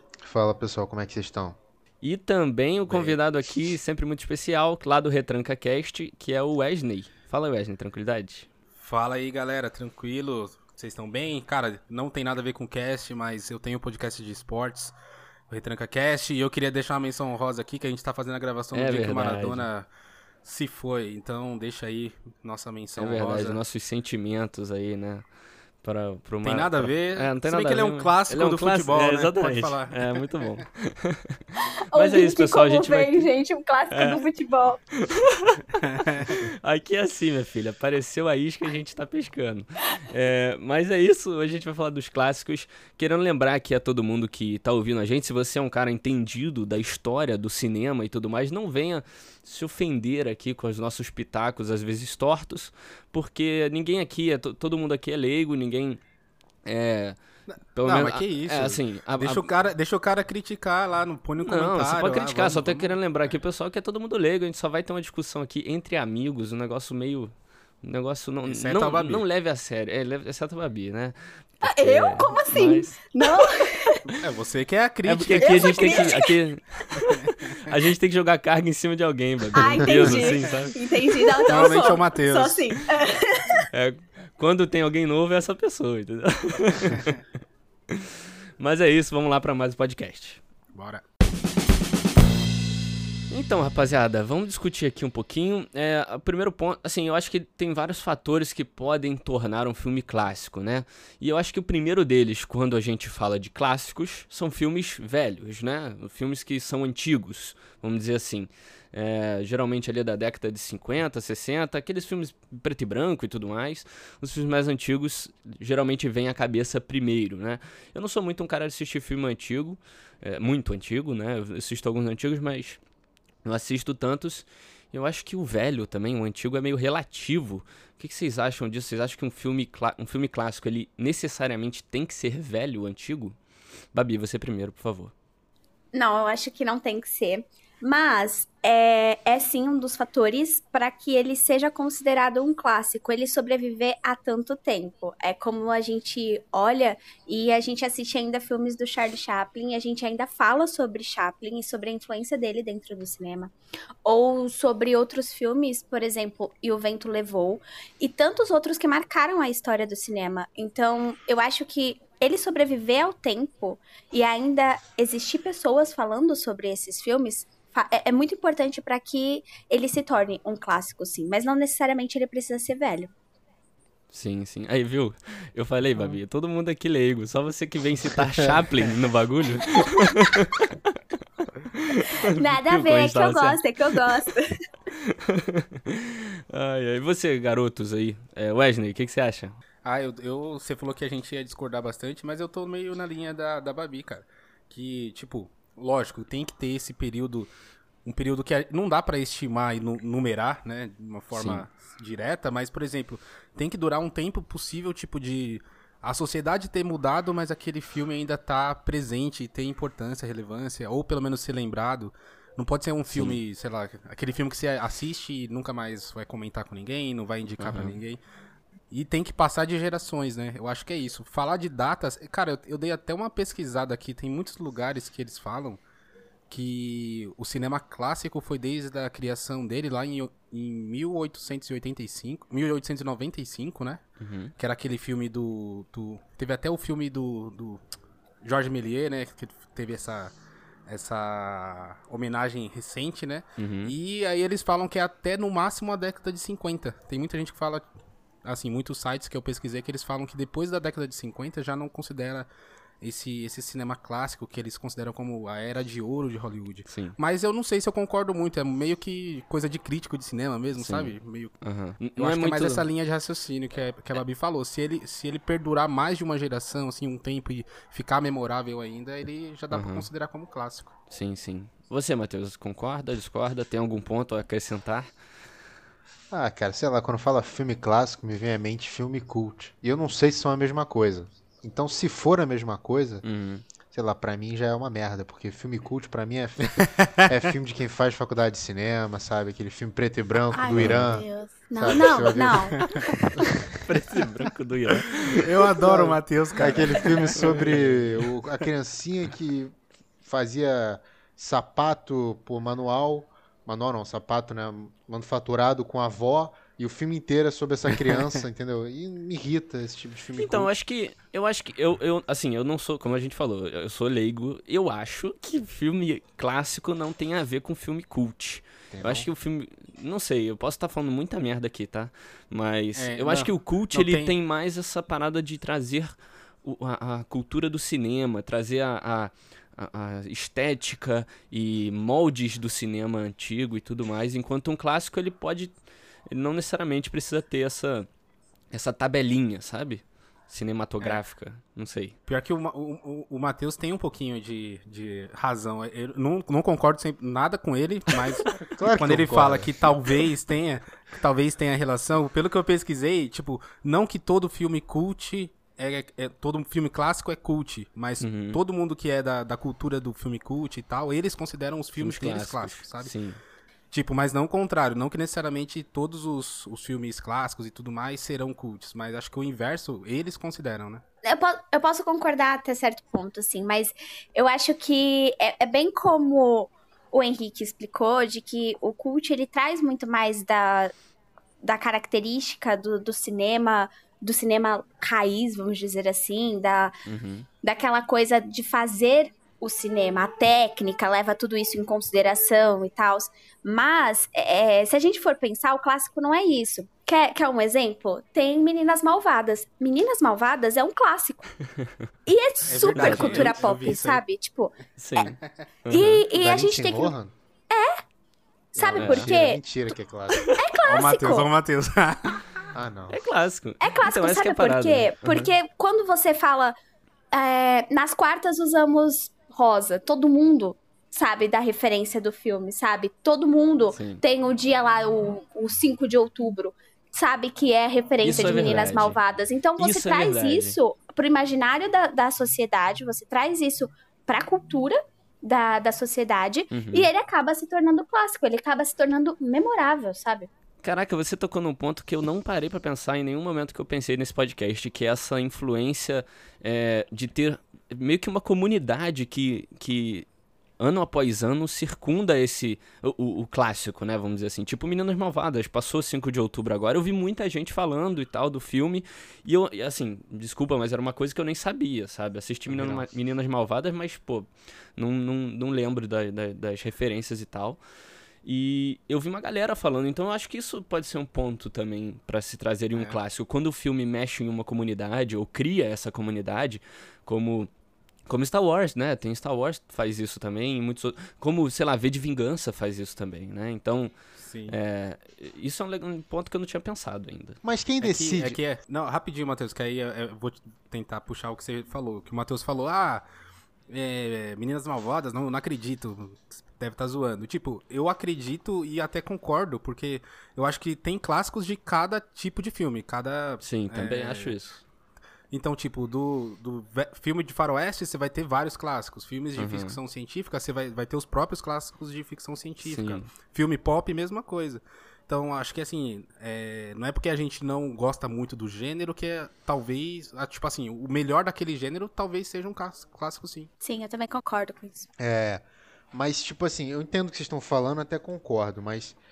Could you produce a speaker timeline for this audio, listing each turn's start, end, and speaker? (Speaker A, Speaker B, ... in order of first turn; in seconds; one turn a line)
Speaker A: 0.2-1.6
Speaker B: 2.0-8.5
Speaker C: 2.9-3.2
Speaker C: 8.8-14.9
Speaker C: 15.5-19.9
Speaker B: 18.7-19.7
Speaker C: 20.4-23.6
Speaker B: 23.0-25.3
Speaker B: 25.8-31.4
Speaker C: 26.4-30.4
Speaker D: 31.9-34.8
Speaker B: 31.9-33.3
Speaker B: 33.9-34.2
Speaker B: 34.9-35.6
Speaker C: 35.8-36.4
Speaker B: 36.3-56.0
Speaker B: 56.6-57.2
Speaker C: 57.5-63.3
Speaker B: 57.7-59.5
Speaker B: 61.4-73.0
Speaker C: 68.5-69.2
Speaker D: 71.6-74.1
Speaker C: 74.1-76.1
Speaker B: 75.0-81.8
Speaker D: 75.4-76.4
Speaker D: 79.5-83.6
Speaker C: 80.0-80.6
Speaker C: 81.4-82.9
Speaker B: 83.7-87.2
Speaker C: 86.9-87.2
Speaker B: 87.9-90.4
Speaker C: 90.7-91.0
Speaker B: 93.3-122.8
Speaker B: 123.4-133.4
Speaker B: 133.9-135.1
Speaker D: 135.9-153.5
Speaker D: 154.0-173.1
Speaker B: 174.1-183.6
Speaker D: 182.2-184.6
Speaker B: 185.0-189.6
Speaker C: 189.8-197.5
Speaker C: 198.0-218.2
Speaker B: 201.3-201.6
Speaker B: 213.1-213.4
Speaker B: 217.6-218.0
Speaker C: 218.9-225.8
Speaker C: 226.5-234.0
Speaker B: 234.2-234.5
Speaker C: 234.6-237.8
Speaker C: 238.4-240.3
Speaker C: 240.9-247.8
Speaker B: 243.6-243.9
Speaker C: 248.4-252.5
Speaker C: 253.0-261.5
Speaker B: 256.9-257.1
Speaker B: 260.8-262.8
Speaker C: 262.1-270.9
Speaker B: 269.7-270.1
Speaker B: 271.1-275.1
Speaker A: 276.3-283.2
Speaker B: 283.2-283.6
Speaker A: 283.9-293.6
Speaker D: 290.5-293.6
Speaker B: 290.8-291.1
Speaker C: 292.7-293.1
Speaker B: 293.8-295.7
Speaker C: 294.9-298.2
Speaker A: 295.8-310.7
Speaker B: 296.6-297.7
Speaker B: 310.4-335.7
Speaker A: 318.9-319.3
Speaker C: 322.9-324.3
Speaker B: 336.3-338.1
Speaker B: 338.7-342.1
Speaker C: 342.2-363.1
Speaker A: 348.5-349.9
Speaker B: 358.2-358.6
Speaker B: 361.9-363.4
Speaker C: 363.9-371.0
Speaker D: 371.2-380.9
Speaker D: 381.6-387.0
Speaker B: 387.1-387.5
Speaker D: 387.6-401.5
Speaker D: 402.2-405.3
Speaker C: 402.7-404.2
Speaker B: 402.9-403.5
Speaker B: 405.0-406.2
Speaker D: 405.9-407.1
Speaker A: 405.9-407.3
Speaker D: 407.7-408.0
Speaker D: 408.7-409.6
Speaker A: 408.8-410.5
Speaker B: 408.9-409.3
Speaker D: 410.5-411.5
Speaker C: 410.8-412.7
Speaker A: 412.7-413.2
Speaker B: 413.1-415.4
Speaker D: 413.8-416.8
Speaker D: 417.3-440.5
Speaker B: 423.9-424.2
Speaker B: 428.2-429.2
Speaker B: 429.8-430.7
Speaker B: 436.7-437.1
Speaker B: 440.8-450.2
Speaker B: 450.8-467.8
Speaker A: 462.7-463.0
Speaker B: 468.4-477.7
Speaker B: 478.3-484.1
Speaker C: 484.4-484.8
Speaker B: 484.7-487.6
Speaker A: 487.6-488.6
Speaker C: 488.0-493.2
Speaker C: 493.9-504.6
Speaker B: 503.6-504.8
Speaker C: 505.5-523.7
Speaker B: 509.6-510.0
Speaker B: 512.8-513.3
Speaker D: 523.8-525.1
Speaker A: 525.2-529.2